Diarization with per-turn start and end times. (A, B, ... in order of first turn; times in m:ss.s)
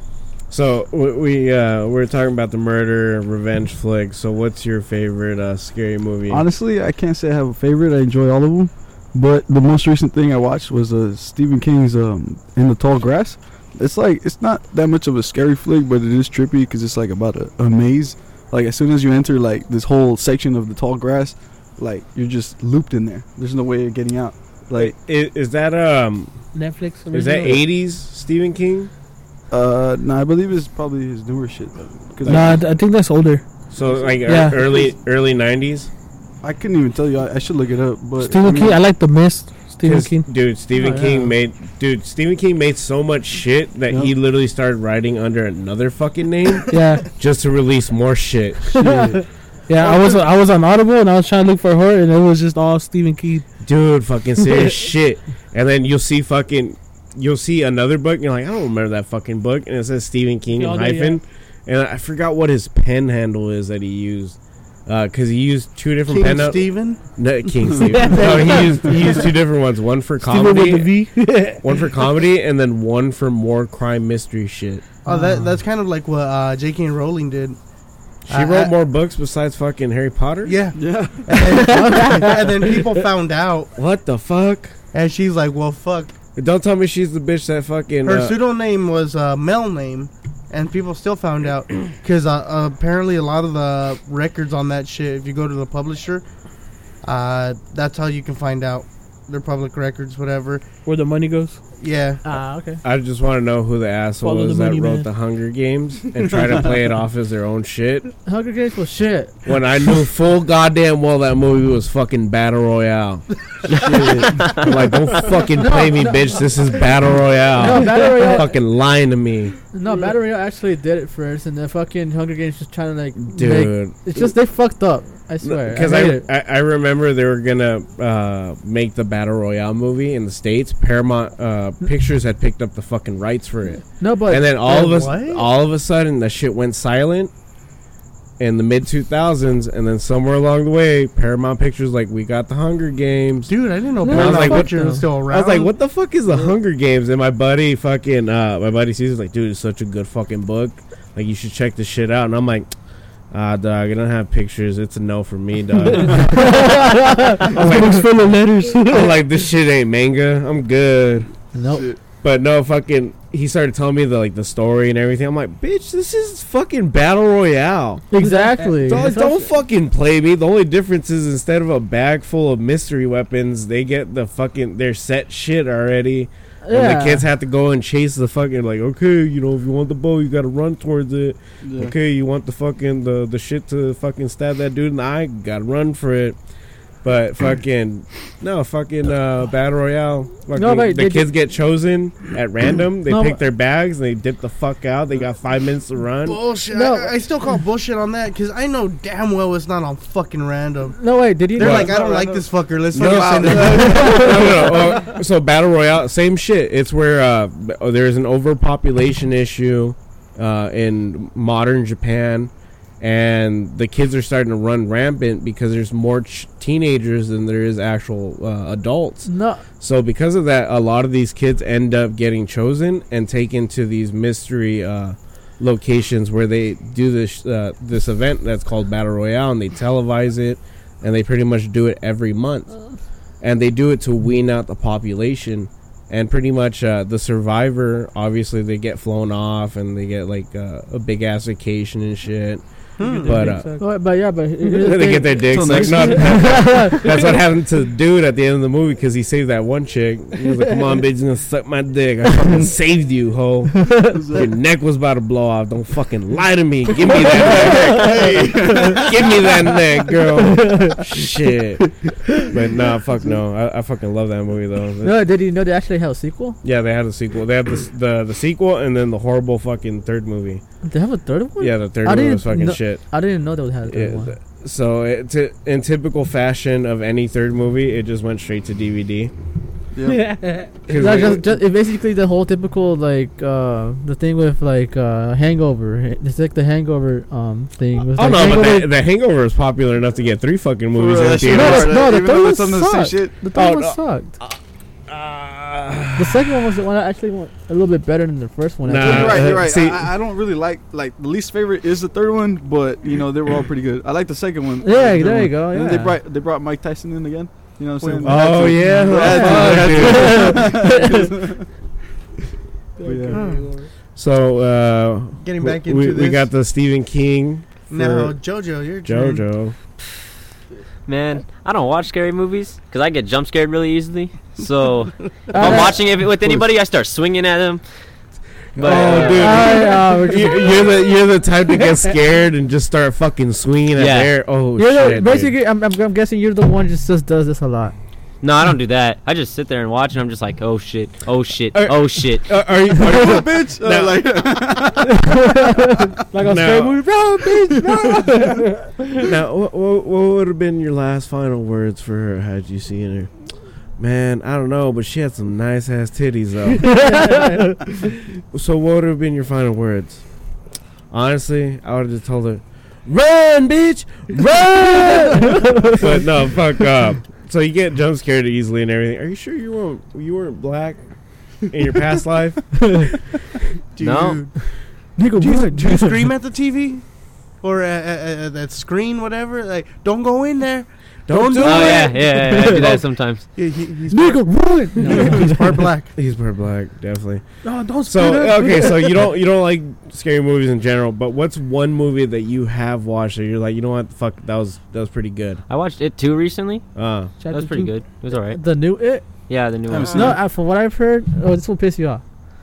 0:00.5-0:06.5 A
0:06.3-0:25.0 B
0:24.8-0:26.4 A
0:26.5-0:27.6 C
0:27.1-0:28.9 A
0:29.5-0:32.6 B
0:32.2-0:32.5 A
0:32.3-0:33.4 C
0:33.7-0:35.9 A
0:34.3-0:34.6 C
0:36.4-0:38.8 B
0:38.2-0:40.3 C
0:39.8-0:48.9 A
0:40.7-0:41.3 D
0:46.7-0:47.1 C
0:48.7-0:49.2 B
0:48.8-0:53.5 C
0:49.8-0:50.2 E
0:53.6-1:14.9 A
0:54.4-0:54.8 C
1:00.5-1:01.2 C
1:06.1-1:08.2 E
1:07.9-1:09.2 C
1:10.2-1:12.0 C
1:15.0-1:17.6 E
1:15.1-1:15.6 D
1:18.3-1:20.6 A
1:18.3-1:18.7 E
1:20.4-1:23.7 E
1:20.8-1:21.3 B
1:21.6-1:22.4 D
1:23.8-1:24.8 A
1:24.9-1:26.2 E
1:26.4-1:28.4 A
1:28.0-1:36.2 E
1:37.0-1:40.6 E
1:40.8-1:41.6 C
1:41.8-1:42.2 E
1:42.2-1:42.8 D
1:42.8-1:48.1 A
1:44.2-1:45.1 C
1:48.3-1:49.4 D
1:49.4-1:59.6 A
1:53.7-1:54.6 B
1:55.6-1:56.4 D
1:57.6-1:58.5 D
1:59.7-2:06.3 D
2:03.2-2:04.3 A
2:05.4-2:17.3 A
2:14.0-2:14.5 D
2:14.6-2:15.5 E
2:18.4-2:23.5 A
2:23.5-2:25.7 E
2:24.0-2:25.0 D
2:24.0-2:32.7 A
2:33.3-2:38.1 A
2:35.9-2:39.2 C
2:36.2-2:37.2 D
2:38.8-2:41.3 A
2:41.5-2:41.9 D
2:41.6-2:42.0 B
2:42.2-2:48.1 A
2:48.1-2:49.5 D
2:48.1-2:49.2 C
2:48.8-3:06.4 A
2:56.6-2:57.3 D
3:01.6-3:01.9 B
3:07.0-3:16.4 A
3:10.5-3:11.3 D
3:13.1-3:13.4 D
3:16.2-3:21.0 E
3:16.7-3:17.1 D
3:21.0-3:22.0 D
3:21.6-3:24.4 E
3:21.6-3:22.0 A
3:21.7-3:25.0 B
3:23.0-3:52.7 A
3:23.7-3:24.4 D
3:39.2-3:39.6 D
3:53.4-4:02.6 A
4:03.0-4:03.5 E
4:03.0-4:03.8 C
4:03.2-4:03.8 A
4:03.8-4:07.2 D
4:04.7-4:25.3 A
4:05.5-4:06.8 B
4:14.1-4:14.5 B
4:17.1-4:19.4 B
4:20.5-4:21.0 D
4:25.0-4:26.6 D
4:26.6-4:30.6 A
4:30.8-4:34.3 D
4:31.6-4:33.1 A
4:33.9-4:39.3 A
4:40.0-4:40.2 B
4:40.0-4:40.8 C
4:40.9-4:41.6 A
4:40.9-4:48.9 D
4:48.1-4:52.1 A
4:50.9-4:53.3 B
4:51.4-4:54.4 D
4:53.5-4:56.5 A
4:56.2-4:59.5 D
4:58.8-5:00.1 A
4:59.0-5:11.7 B
5:04.8-5:06.2 D
5:08.0-5:08.9 E
5:08.2-5:10.8 A
5:08.8-5:11.3 D
5:13.0-5:13.9 C
5:13.0-5:13.4 B
5:13.3-5:13.7 E
5:14.2-5:18.4 A
5:15.4-5:16.5 E
5:17.9-5:19.4 E
5:19.0-5:19.8 A
5:21.1-5:27.8 F
5:25.5-5:26.0 D
5:28.7-5:35.5 A
5:28.8-5:29.7 F
5:29.2-5:30.7 D
5:29.2-5:30.7 C
5:31.8-5:32.1 C
5:33.9-5:34.4 F
5:34.8-5:38.0 D
5:38.4-5:42.6 F
5:41.7-5:44.6 A
5:42.9-5:45.2 B
5:46.3-5:49.3 C
5:46.4-5:47.1 A
5:47.8-5:48.3 B
5:49.2-5:53.3 A
5:54.0-5:57.5 A
5:56.9-5:57.6 C
5:57.1-5:57.6 D
5:58.5-6:00.3 A
6:01.1-6:11.0 A
6:05.3-6:06.0 D
6:11.7-6:13.1 A
6:14.0-6:14.7 E
6:14.0-6:14.5 F
6:15.2-6:16.3 D
6:15.4-6:17.0 E
6:17.6-6:23.0 E
6:21.3-6:23.0 A
6:21.6-6:23.5 F
6:22.4-6:22.8 D
6:23.5-6:26.1 E
6:24.1-6:25.9 D
6:25.1-6:25.4 B
6:26.2-6:27.4 A
6:27.6-6:29.2 C
6:28.0-6:35.6 A
6:35.7-6:36.9 F
6:37.0-6:37.4 A
6:37.4-6:37.9 C
6:37.5-6:38.6 F
6:38.5-6:39.3 D
6:39.5-6:40.3 F
6:39.9-6:40.4 B
6:40.1-6:42.2 D